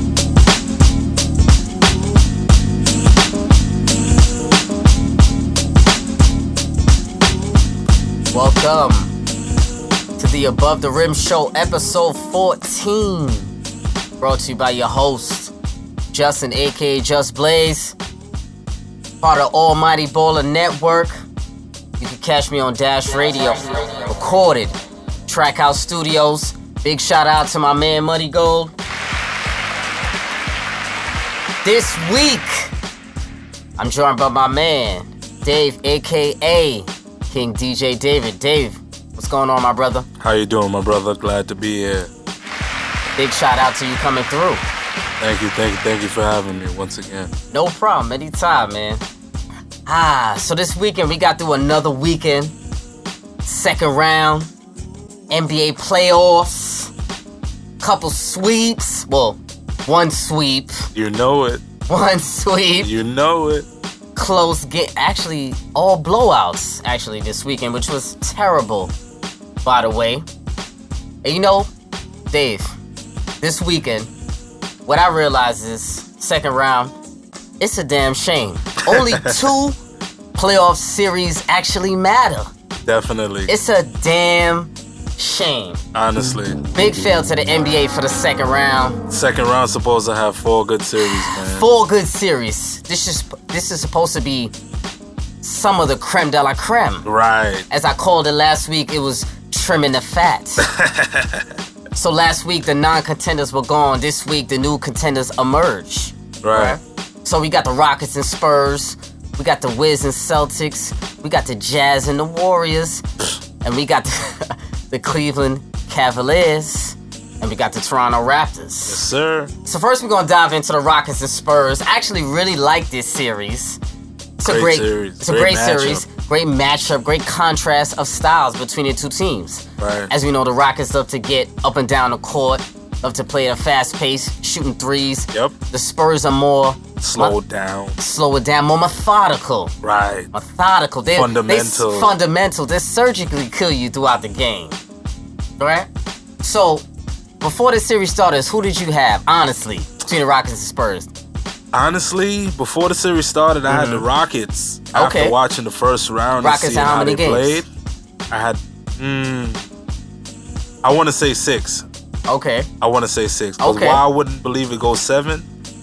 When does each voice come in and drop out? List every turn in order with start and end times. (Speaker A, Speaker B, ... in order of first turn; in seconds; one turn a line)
Speaker A: 8.3-9.1
Speaker A: 10.2-13.5
Speaker A: 14.2-15.5
Speaker A: 16.1-17.9
Speaker A: 19.2-21.2
Speaker A: 22.0-24.8
Speaker A: 25.3-28.7
Speaker A: 31.6-32.7
Speaker A: 33.8-40.0
Speaker B: 40.2-42.1
Speaker A: 43.2-44.6
Speaker B: 45.2-47.3
Speaker A: 47.5-49.0
Speaker A: 49.9-52.5
Speaker A: 53.4-54.5
Speaker A: 55.3-56.9
Speaker A: 57.8-60.9
Speaker B: 60.9-61.6
Speaker A: 61.9-62.9
Speaker B: 62.8-63.7
Speaker A: 64.2-68.9
Speaker A: 69.6-70.2
Speaker A: 71.2-71.7
Speaker A: 72.3-72.7
Speaker A: 73.4-74.1
Speaker A: 74.8-76.9
Speaker A: 77.6-79.8
Speaker B: 78.8-79.5
Speaker A: 80.3-82.5
Speaker B: 82.9-83.5
Speaker A: 83.5-85.8
Speaker B: 85.9-86.6
Speaker A: 86.7-89.0
Speaker B: 89.1-91.7
Speaker A: 91.0-94.5
Speaker A: 95.4-97.0
Speaker B: 97.0-97.7
Speaker A: 97.7-100.6
Speaker B: 100.6-101.5
Speaker A: 101.9-113.0
Speaker B: 106.4-106.8
Speaker A: 113.6-119.0
Speaker B: 118.8-119.5
Speaker A: 119.6-123.8
Speaker A: 124.4-137.3
Speaker B: 124.4-126.0
Speaker B: 129.8-130.1
Speaker B: 137.0-138.0
Speaker A: 138.0-139.7
Speaker B: 139.8-140.3
Speaker A: 140.3-144.8
Speaker B: 141.1-142.2
Speaker A: 145.6-145.9
Speaker A: 146.4-146.8
Speaker A: 147.4-151.1
Speaker B: 151.7-157.7
Speaker A: 153.7-154.0
Speaker A: 154.9-155.3
Speaker A: 156.4-157.6
Speaker B: 158.3-159.6
Speaker B: 160.8-161.8
Speaker A: 162.3-162.7
Speaker B: 162.8-165.5
Speaker A: 163.6-164.0